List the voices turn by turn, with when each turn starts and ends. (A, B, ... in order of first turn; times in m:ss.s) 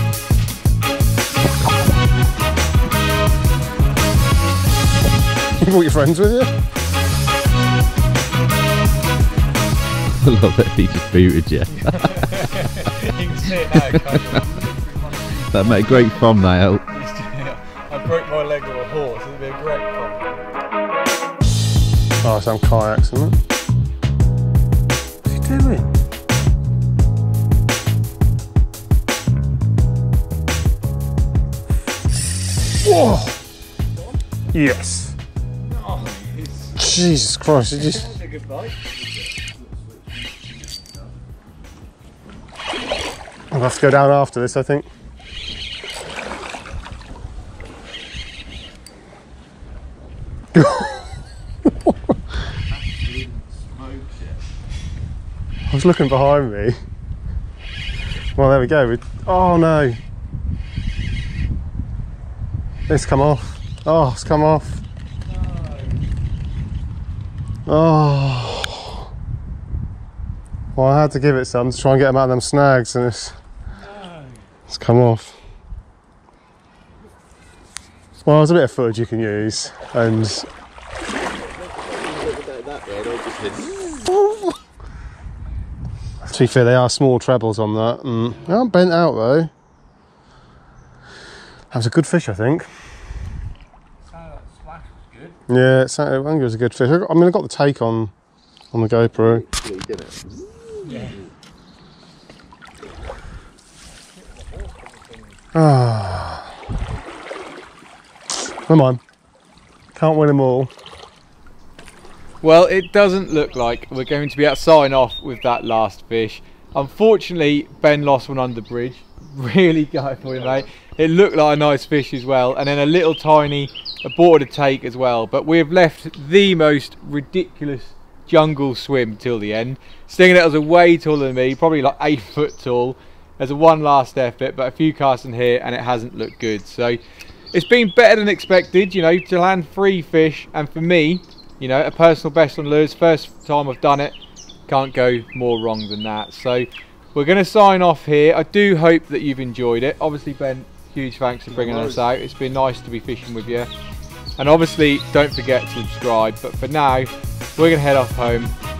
0:05.6-0:06.5 A
0:10.1-0:12.6 B
0:11.7-0:20.4 C
0:13.7-0:14.4 B
0:15.4-0:16.8 B
0:22.2-0:23.4 A
0:25.2-0:25.9 A
0:32.9-0:33.3 A
0:34.5-0:35.2 A
0:35.7-0:36.8 C
0:36.8-0:38.2 A
0:37.7-0:39.0 C
0:43.5-0:44.9 A
0:50.5-0:51.1 A
0:55.7-0:56.8 A
0:58.4-1:00.0 A
1:02.9-1:04.8 A
1:07.7-1:09.0 A
1:10.8-1:13.4 A
1:14.7-1:15.4 A
1:18.2-1:20.5 A
1:21.9-1:24.1 B
1:26.2-1:29.5 A
1:31.7-1:32.7 A
1:34.3-1:35.3 C
1:35.5-1:38.1 A
1:38.7-1:39.5 A
1:39.2-1:41.3 B
1:40.9-1:41.2 C
1:44.6-1:45.2 C
1:45.5-1:46.6 A
1:48.7-1:49.0 A
1:50.0-1:50.7 A
1:52.4-2:17.0 C
2:17.5-2:24.2 C
2:24.7-2:33.7 C
2:34.4-2:38.5 C